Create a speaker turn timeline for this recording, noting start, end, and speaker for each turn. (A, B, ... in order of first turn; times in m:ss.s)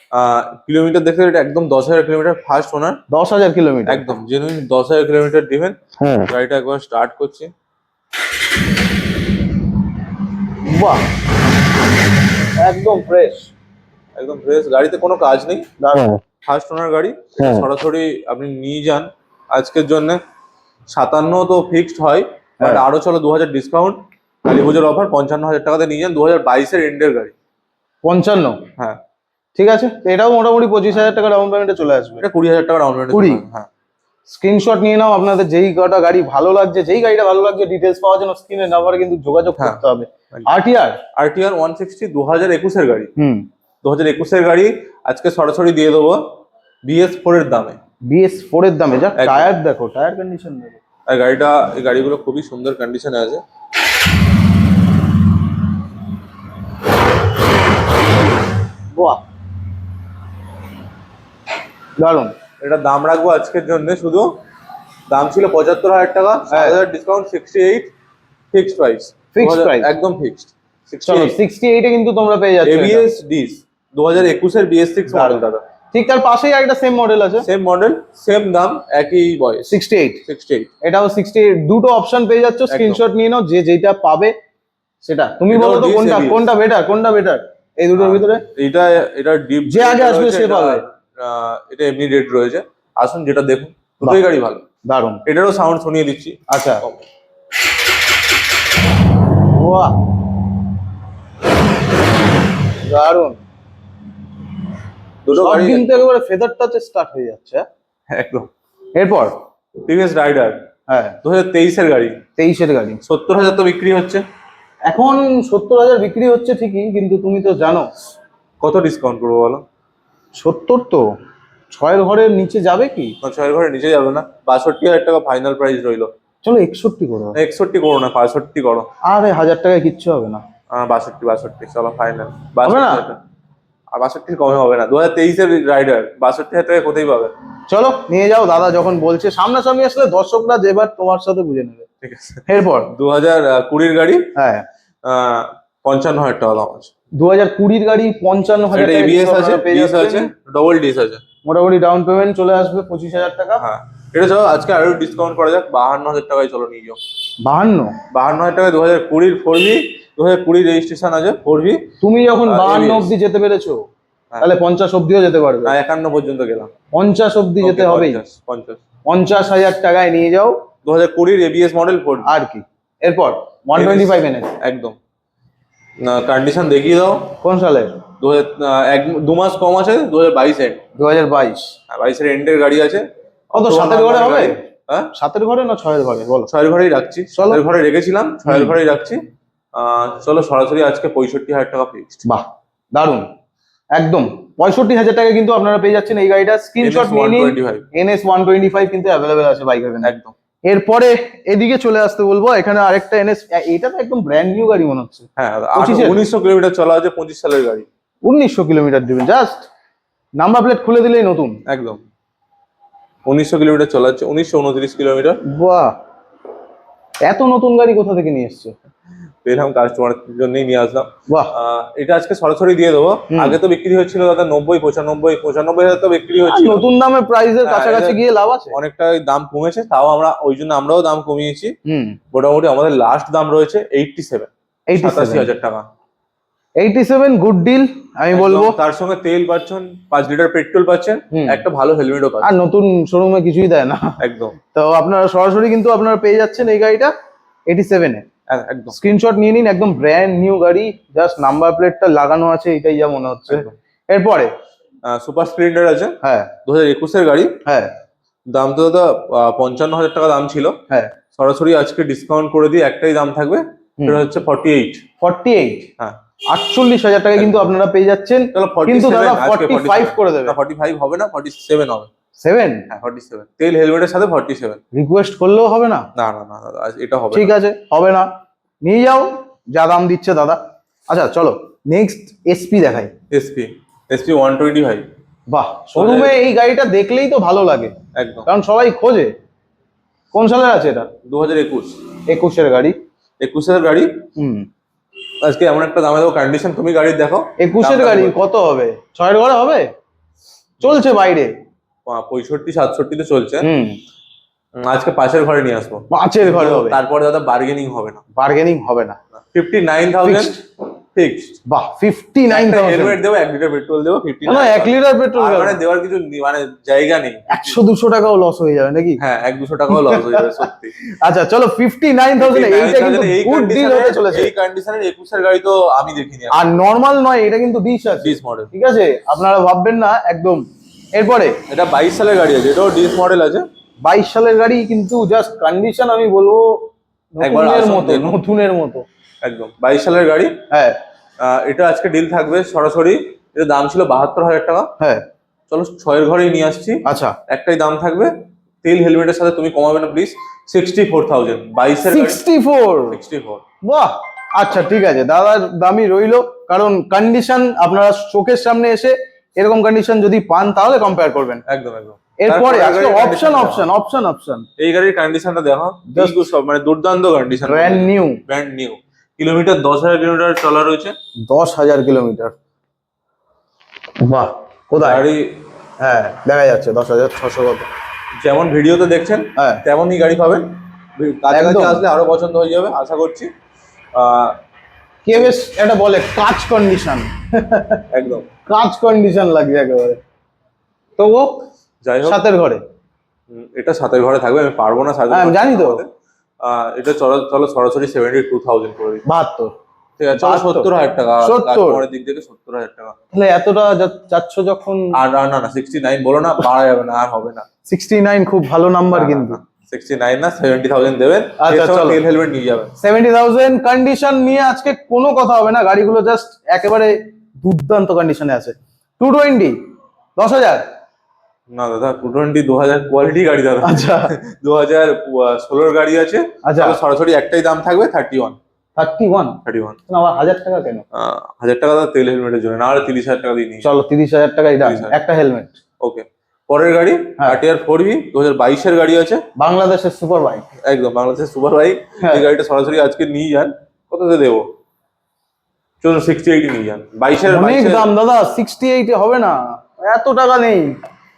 0:00.1-0:03.0 A
0:03.1-0:04.2 B
0:03.9-0:07.5 A
0:10.6-0:11.0 B
0:12.6-0:13.5 B
0:14.2-0:15.7 A
0:15.8-0:16.2 B
0:16.4-0:20.2 A
0:20.9-0:27.3 A
0:28.0-0:28.6 B
0:29.6-0:32.3 B
0:32.2-0:33.7 A
0:33.1-0:33.4 B
0:34.3-0:41.0 B
0:41.2-0:43.1 A
0:43.2-0:43.5 B
0:43.8-0:47.8 A
0:48.1-0:50.8 B
0:49.2-0:49.5 A
0:51.1-0:53.4 A
0:58.9-0:59.2 B
1:02.0-1:02.3 B
1:02.6-1:04.4 A
1:05.1-1:07.9 A
1:06.5-1:06.8 B
1:08.5-1:11.4 A
1:09.3-1:09.9 B
1:11.0-1:13.1 B
1:12.6-1:15.6 A
1:15.1-1:17.5 B
1:17.4-1:20.7 A
1:19.7-1:20.2 B
1:20.8-1:24.4 B
1:22.7-1:23.0 A
1:25.0-1:28.4 B
1:25.5-1:26.5 A
1:28.0-1:34.7 A
1:29.7-1:30.8 B
1:34.8-1:35.2 B
1:35.3-1:37.0 A
1:36.5-1:36.8 B
1:39.5-1:40.0 B
1:42.8-1:43.4 B
1:45.2-1:46.1 A
1:45.3-1:47.6 B
1:48.1-1:48.5 A
1:49.0-1:49.4 B
1:49.9-1:50.6 A
1:50.9-1:51.2 B
1:51.2-1:52.2 A
1:52.4-1:53.0 B
1:53.0-1:54.2 A
1:54.9-1:57.9 B
1:58.6-1:59.6 A
2:00.4-2:01.1 B
2:01.7-2:03.2 B
2:03.2-2:06.1 A
2:06.4-2:07.4 B
2:07.4-2:08.9 A
2:09.0-2:10.4 B
2:10.7-2:13.2 A
2:12.6-2:13.1 B
2:13.9-2:17.3 A
2:17.7-2:21.9 B
2:22.0-2:24.3 A
2:22.5-2:22.9 B
2:24.4-2:24.6 B
2:25.0-2:26.9 A
2:27.2-2:30.3 B
2:28.7-2:31.2 A
2:31.4-2:33.6 B
2:33.6-2:37.0 A
2:37.4-2:38.0 B
2:38.1-2:41.9 A
2:42.0-2:43.8 B
2:42.5-2:43.1 A
2:44.4-2:45.8 B
2:45.6-2:46.7 A
2:46.9-2:48.2 B
2:47.6-2:48.8 A
2:49.1-2:50.6 B
2:50.8-2:52.3 A
2:52.2-2:54.6 B
2:53.8-2:55.0 A
2:56.0-2:57.4 A
2:57.4-2:58.0 B
2:58.2-3:00.8 A
3:01.0-3:01.7 B
3:01.9-3:05.1 A
3:03.6-3:04.6 B
3:05.1-3:06.5 B
3:06.5-3:09.2 A
3:07.3-3:07.6 B
3:08.5-3:08.8 B
3:09.7-3:12.2 A
3:12.2-3:13.3 B
3:13.9-3:20.1 B
3:16.8-3:17.9 A
3:20.0-3:20.3 A
3:20.6-3:26.2 B
3:25.4-3:27.9 A
3:28.2-3:29.7 B
3:30.4-3:31.6 B
3:31.7-3:32.0 A
3:33.3-3:35.4 A
3:35.4-3:36.0 B
3:37.2-3:38.7 B
3:39.4-3:46.8 A
3:43.3-3:43.6 B
3:46.5-3:48.8 B
3:47.6-3:48.2 A
3:48.7-3:51.8 A
3:51.9-3:52.2 B
3:52.3-3:55.9 A
3:54.9-3:55.5 B
3:56.8-3:58.8 B
3:58.3-4:02.5 A
4:01.3-4:01.6 B
4:02.4-4:04.2 B
4:04.2-4:04.6 A
4:04.7-4:07.1 B
4:07.7-4:08.3 B
4:08.5-4:09.0 A
4:08.9-4:14.5 B
4:15.0-4:17.6 A
4:16.2-4:16.5 B
4:17.6-4:17.9 B
4:18.5-4:20.8 A
4:21.3-4:25.0 A
4:25.2-4:25.9 B
4:26.5-4:30.6 B
4:27.4-4:27.6 A
4:28.5-4:32.1 A
4:32.4-4:32.9 B
4:32.9-4:34.8 A
4:34.9-4:36.1 B
4:36.2-4:37.5 A
4:37.3-4:38.3 B
4:38.8-4:43.1 B
4:43.3-4:45.1 A
4:45.5-4:48.0 B
4:46.0-4:46.4 A
4:48.2-4:48.5 A
4:48.5-4:49.3 B
4:50.3-4:51.1 B
4:51.3-4:52.0 A
4:52.3-4:53.0 B
4:53.4-4:54.2 A
4:54.4-4:54.7 B
4:55.4-4:58.4 A
4:57.6-4:59.9 B
5:00.8-5:01.5 B
5:02.1-5:03.7 A
5:03.6-5:04.0 B
5:04.8-5:08.2 A
5:06.1-5:07.0 B
5:08.4-5:09.2 B
5:09.3-5:10.5 A
5:10.2-5:10.6 B
5:11.1-5:11.6 A
5:11.7-5:13.2 B
5:12.5-5:17.8 A
5:14.4-5:15.8 B
5:17.5-5:19.2 B
5:19.2-5:20.9 A
5:19.9-5:20.7 B
5:21.2-5:24.5 B
5:22.4-5:26.7 A
5:26.5-5:31.6 B
5:28.2-5:28.7 A
5:31.7-5:33.7 A
5:34.0-5:36.8 B
5:37.4-5:39.0 B
5:37.4-5:38.4 A
5:39.4-5:40.6 A
5:40.7-5:41.0 B
5:41.4-5:44.9 A
5:45.7-5:48.3 A
5:47.0-5:47.4 B
5:48.8-5:52.4 A
5:52.1-5:53.2 B
5:53.1-5:53.6 A
5:53.8-6:01.6 B
6:01.7-6:03.9 A
6:02.4-6:04.7 B
6:04.8-6:11.2 A
6:06.1-6:06.5 B
6:07.6-6:08.4 B
6:11.5-6:12.5 B
6:14.2-6:15.3 B
6:15.0-6:15.6 A
6:16.0-6:17.9 B
6:18.4-6:23.5 A
6:19.6-6:19.8 B
6:21.5-6:22.0 B
6:24.2-6:24.6 A
6:25.3-6:28.0 B
6:28.1-6:28.5 A
6:28.7-6:30.2 B
6:31.2-6:31.6 B
6:32.0-6:32.4 A
6:32.2-6:32.8 B
6:33.5-6:36.1 A
6:35.3-6:36.0 B
6:36.6-6:39.2 A
6:39.2-6:39.7 B
6:40.2-6:43.2 A
6:40.3-6:40.9 B
6:41.4-6:42.0 B
6:43.3-6:45.2 B
6:45.1-6:47.7 A
6:47.9-6:49.6 B
6:49.1-6:52.9 A
6:51.6-6:52.2 B
6:53.0-6:59.8 B
7:00.4-7:00.9 B
7:01.7-7:08.6 A
7:03.8-7:04.3 B
7:06.6-7:07.0 B
7:09.0-7:11.0 B
7:09.6-7:10.0 A
7:11.1-7:13.9 A
7:13.8-7:15.7 B
7:14.8-7:15.2 A
7:16.0-7:19.4 A
7:19.6-7:20.6 B
7:20.8-7:24.7 A
7:22.2-7:22.5 B
7:26.0-7:28.1 A
7:27.5-7:31.0 B